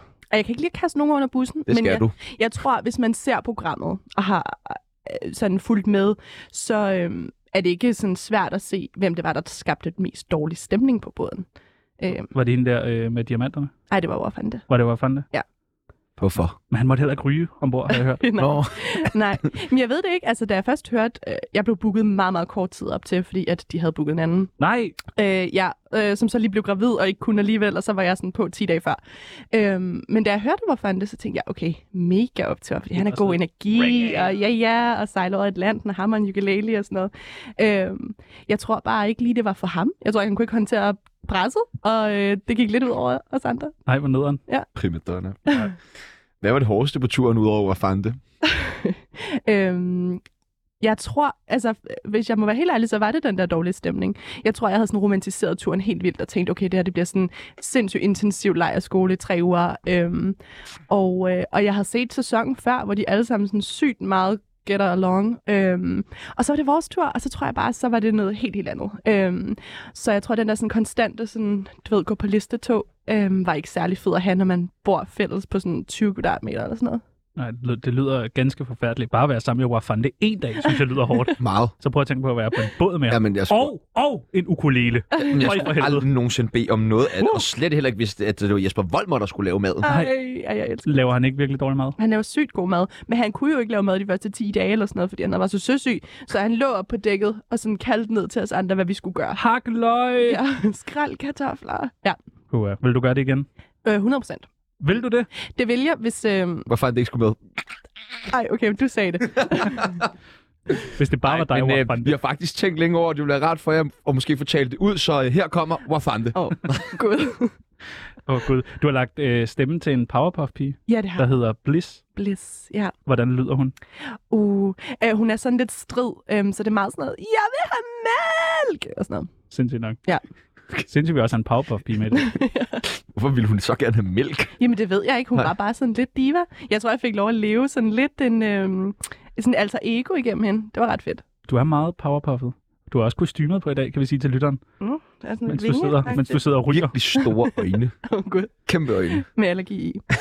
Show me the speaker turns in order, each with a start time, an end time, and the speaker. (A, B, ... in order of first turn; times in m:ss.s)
0:00.3-0:11.5 A
0:01.7-0:02.2 B
0:12.0-0:12.3 A
0:12.3-0:13.7 C
0:13.9-0:14.6 A
0:14.7-0:15.3 C
0:16.2-0:16.6 B
0:16.7-0:18.4 C
0:17.9-0:24.5 A
0:18.4-0:19.1 B
0:24.6-0:25.0 C
0:25.2-0:29.0 A
0:29.5-0:43.8 A
0:33.0-0:34.3 C
0:43.9-0:44.4 C
0:44.8-0:45.5 B
0:46.4-0:48.2 B
0:48.4-0:50.2 A
0:50.8-1:00.4 A
1:00.9-1:17.0 A
1:17.4-1:26.1 C
1:21.4-1:21.7 B
1:23.1-1:23.7 B
1:25.3-1:29.9 B
1:29.8-1:31.1 A
1:29.9-1:30.2 C
1:30.8-1:32.0 C
1:32.0-1:39.4 A
1:39.4-1:40.4 C
1:40.2-1:42.2 A
1:42.5-1:43.5 C
1:43.8-1:44.5 A
1:44.8-1:45.3 C
1:45.4-1:46.7 A
1:46.7-1:47.4 B
1:48.3-1:50.0 A
1:49.4-1:50.0 B
1:50.9-1:52.1 C
1:51.2-1:56.9 B
1:56.3-1:57.5 A
1:58.3-2:02.0 C
2:00.9-2:01.4 A
2:02.2-2:02.9 A
2:03.1-2:03.8 C
2:04.0-2:09.3 A
2:09.5-2:10.0 C
2:10.8-2:12.4 C
2:12.2-2:12.8 A
2:13.1-2:14.6 B
2:14.6-2:21.2 A
2:21.5-2:24.6 C
2:24.8-2:26.5 A
2:25.5-2:27.0 C
2:26.5-2:28.0 B
2:27.2-2:30.0 A
2:28.7-2:29.2 B